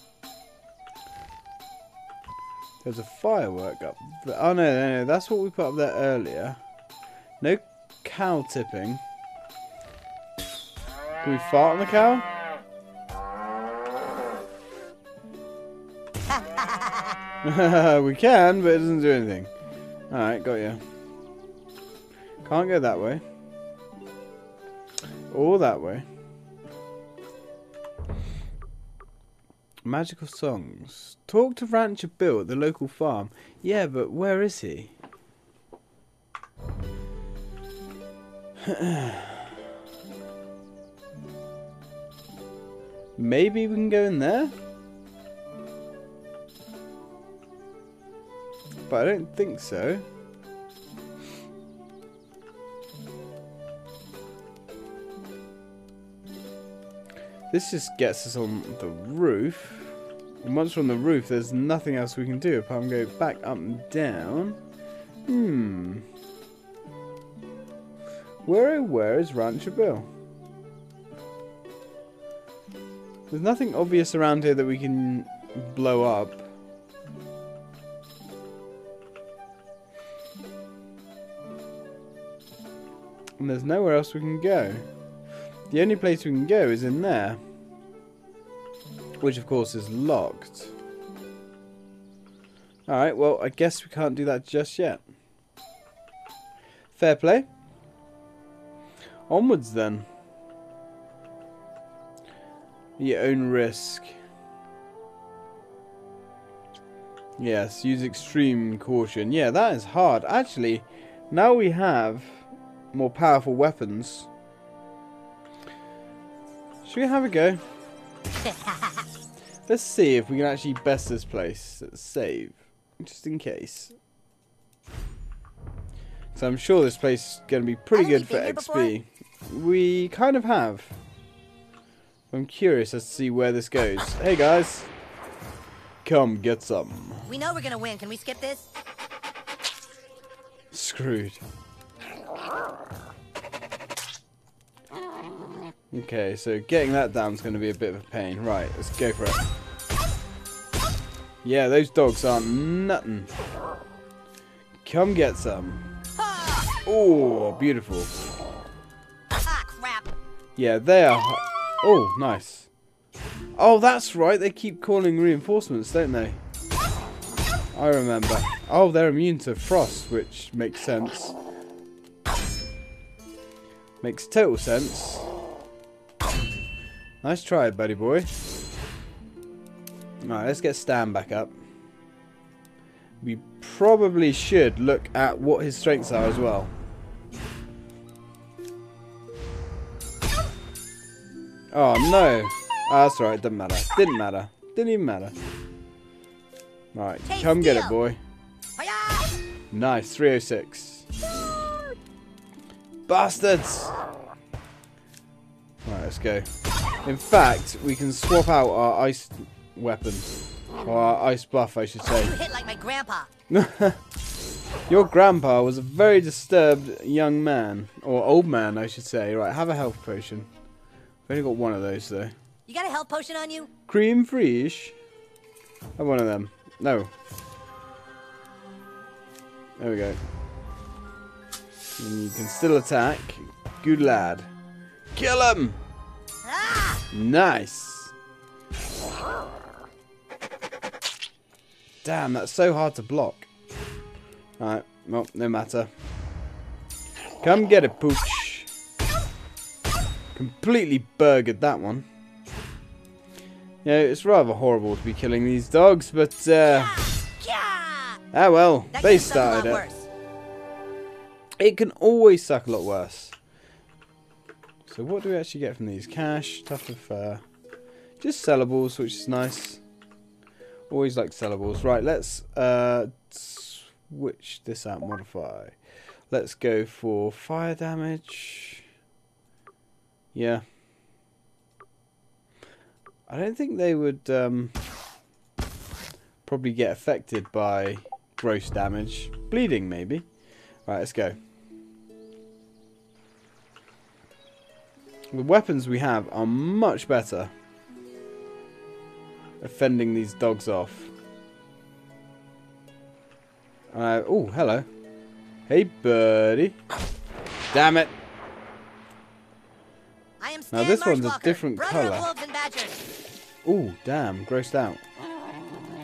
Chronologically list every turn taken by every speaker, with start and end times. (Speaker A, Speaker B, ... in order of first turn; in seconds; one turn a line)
Speaker A: 2.8-6.6
Speaker A: 7.4-9.0
Speaker A: 11.2-12.3
Speaker B: 16.3-17.2
Speaker A: 17.4-19.5
Speaker A: 20.1-20.8
Speaker A: 22.4-23.2
Speaker A: 25.3-26.1
Speaker A: 29.9-34.9
Speaker A: 38.6-39.5
Speaker A: 43.2-44.5
Speaker A: 48.9-50.0
Speaker A: 57.5-64.6
Speaker A: 65.3-66.0
Speaker A: 68.5-70.1
Speaker A: 73.3-76.5
Speaker A: 83.4-84.8
Speaker A: 85.7-87.4
Speaker A: 89.2-90.7
Speaker A: 92.9-95.0
Speaker A: 96.9-97.5
Speaker A: 99.3-100.1
Speaker A: 103.0-104.2
Speaker A: 107.4-114.3
Speaker A: 116.8-117.6
Speaker B: 118.4-119.0
Speaker A: 119.7-124.0
Speaker A: 126.3-131.0
Speaker B: 127.9-128.9
Speaker A: 132.3-134.9
Speaker A: 136.0-137.3
Speaker B: 137.3-138.7
Speaker A: 140.7-141.4
Speaker A: 145.9-149.4
Speaker A: 151.4-153.3
Speaker A: 154.8-155.9
Speaker B: 156.2-156.8
Speaker A: 156.8-158.1
Speaker B: 159.4-160.1
Speaker A: 160.6-162.7
Speaker A: 163.6-166.4
Speaker A: 167.7-171.3
Speaker A: 174.0-175.3
Speaker A: 177.2-178.3
Speaker A: 180.2-181.5
Speaker A: 183.2-186.7
Speaker A: 191.7-195.3
Speaker A: 196.9-198.2
Speaker B: 197.3-197.9
Speaker B: 198.8-199.3
Speaker A: 199.7-201.1
Speaker A: 203.1-204.0
Speaker A: 205.8-206.5
Speaker A: 207.1-210.3
Speaker A: 210.8-212.3
Speaker B: 212.1-213.3
Speaker A: 213.5-214.0
Speaker A: 214.9-220.5
Speaker A: 221.3-222.3
Speaker B: 222.7-223.7
Speaker A: 223.9-224.9
Speaker A: 226.0-227.1
Speaker A: 229.8-230.2
Speaker A: 232.0-234.5
Speaker A: 235.2-235.8
Speaker B: 236.4-237.0
Speaker A: 237.1-238.1
Speaker A: 242.0-243.5
Speaker A: 244.6-245.9
Speaker A: 247.4-248.7
Speaker A: 250.3-252.1
Speaker A: 253.8-257.0
Speaker B: 256.7-258.2
Speaker A: 258.3-259.9
Speaker B: 258.9-260.1
Speaker A: 261.6-263.4
Speaker A: 264.9-267.4
Speaker A: 268.2-269.8
Speaker A: 270.9-275.8
Speaker A: 276.3-278.9
Speaker A: 280.3-280.6
Speaker A: 283.3-284.7
Speaker A: 286.4-290.2
Speaker A: 290.9-291.4
Speaker A: 295.3-297.5
Speaker A: 299.6-301.1
Speaker A: 303.9-304.9
Speaker A: 305.7-306.8
Speaker A: 307.7-308.1
Speaker B: 310.4-313.0
Speaker A: 310.7-312.3
Speaker A: 313.6-315.0